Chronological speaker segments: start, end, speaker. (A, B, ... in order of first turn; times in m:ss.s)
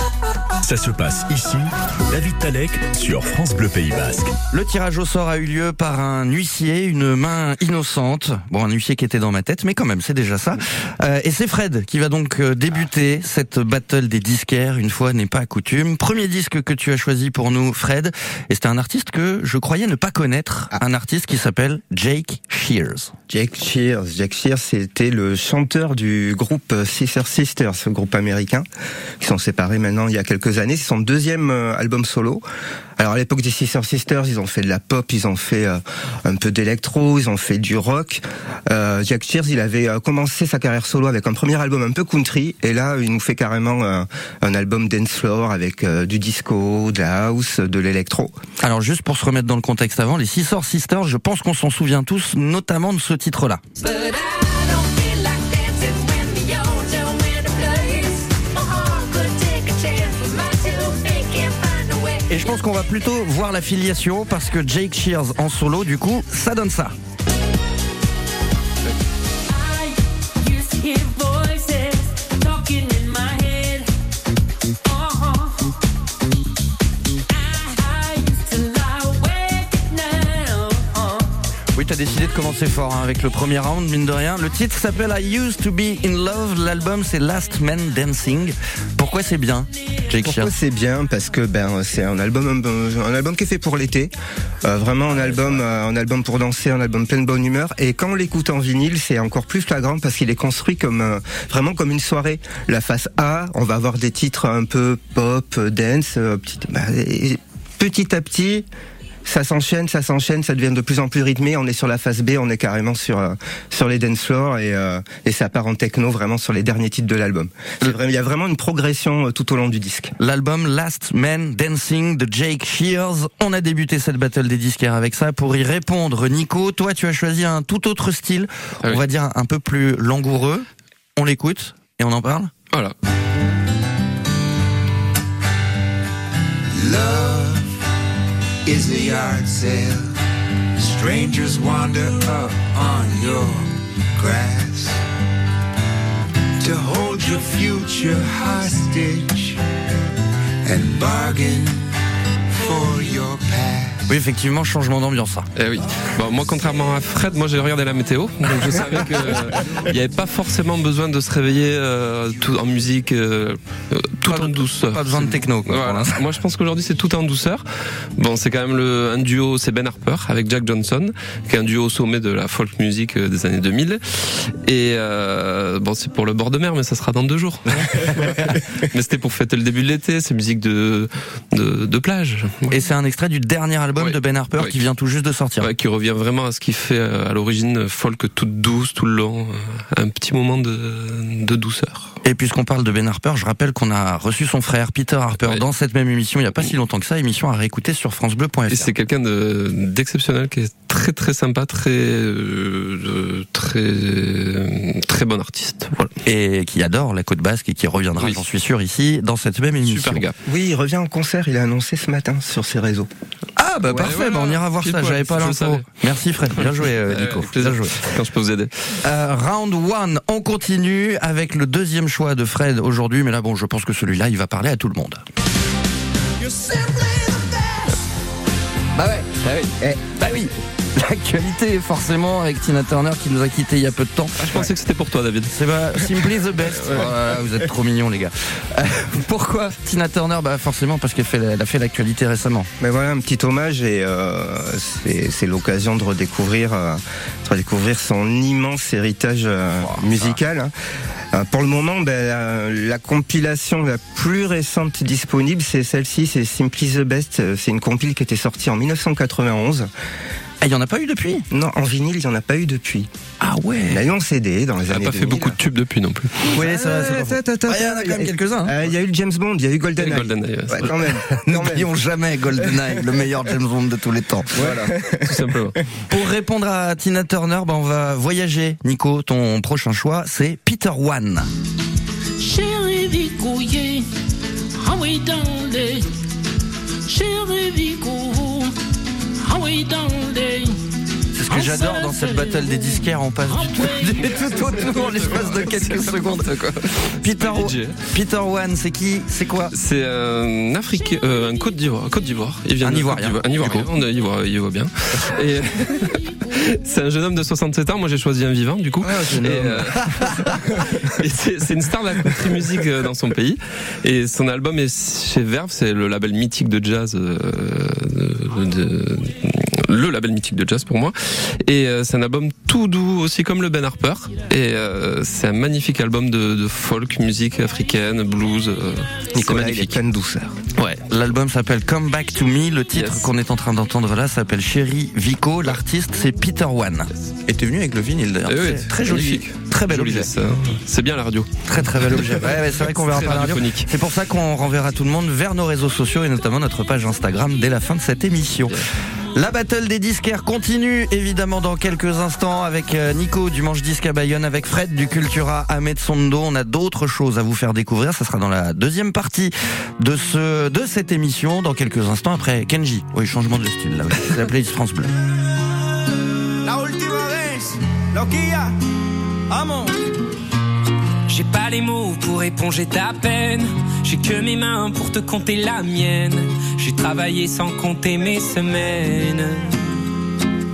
0:00.6-0:04.3 A
0:04.5-0:23.1 B
0:23.3-0:28.7 C
0:29.2-0:32.4 C
0:33.0-0:48.4 C
0:48.6-0:53.6 B
0:53.8-1:02.3 D
1:02.3-1:06.9 B
1:09.5-1:13.9 D
1:14.8-1:15.7 D
1:17.3-1:21.3 D
1:21.8-1:30.5 B
1:30.2-1:34.1 C
1:34.6-1:48.6 C
1:49.3-2:00.1 C
2:00.2-2:12.5 B
2:16.8-2:17.7 E
2:18.6-2:20.1 E
2:20.8-2:25.0 E
2:26.6-2:29.6 E
2:30.6-2:31.9 E
2:32.5-2:34.1 E
2:34.1-2:35.5 B
2:35.6-2:47.6 F
2:44.2-2:46.2 B
2:48.2-3:02.8 F
3:02.7-3:05.7 B
3:04.0-3:04.8 F
3:05.6-3:12.2 F
3:12.2-3:18.9 B
3:18.7-3:26.1 F
3:26.2-3:30.2 B
3:28.2-3:28.4 F
3:29.8-3:30.3 F
3:30.4-3:33.1 C
3:33.6-3:38.1 B
3:33.9-3:35.9 F
3:36.5-3:39.0 F
3:39.0-3:45.2 B
3:49.0-3:54.6 B
3:54.4-3:55.5 F
3:55.5-4:02.7 B
3:56.8-3:57.1 F
4:02.8-4:10.7 C
4:09.8-4:10.3 B
4:11.3-4:19.9 C
4:20.6-4:21.4 B
4:21.5-4:23.1 C
4:23.4-4:24.0 B
4:23.9-4:25.6 C
4:24.8-4:26.5 F
4:26.5-4:31.9 C
4:26.5-4:28.8 B
4:30.0-4:30.9 F
4:31.3-4:34.7 B
4:32.6-4:33.0 C
4:34.6-4:35.8 F
4:34.6-4:35.4 C
4:36.1-4:41.5 B
4:42.4-4:44.1 G
4:44.8-4:46.1 G
4:47.1-4:48.7 G
4:49.4-4:50.8 G
4:51.3-4:59.7 B
4:51.5-4:55.0 G
4:54.6-4:58.1 F
4:59.7-5:30.0 F
5:02.8-5:03.9 B
5:09.0-5:10.6 B
5:29.3-5:30.6 C
5:30.8-5:31.0 F
5:31.1-5:40.3 B
5:32.9-5:33.3 F
5:38.5-5:43.9 F
5:41.7-5:48.8 B
5:49.3-6:05.1 B
6:06.6-6:08.8 H
6:09.5-6:09.9 H
6:11.3-6:19.8 I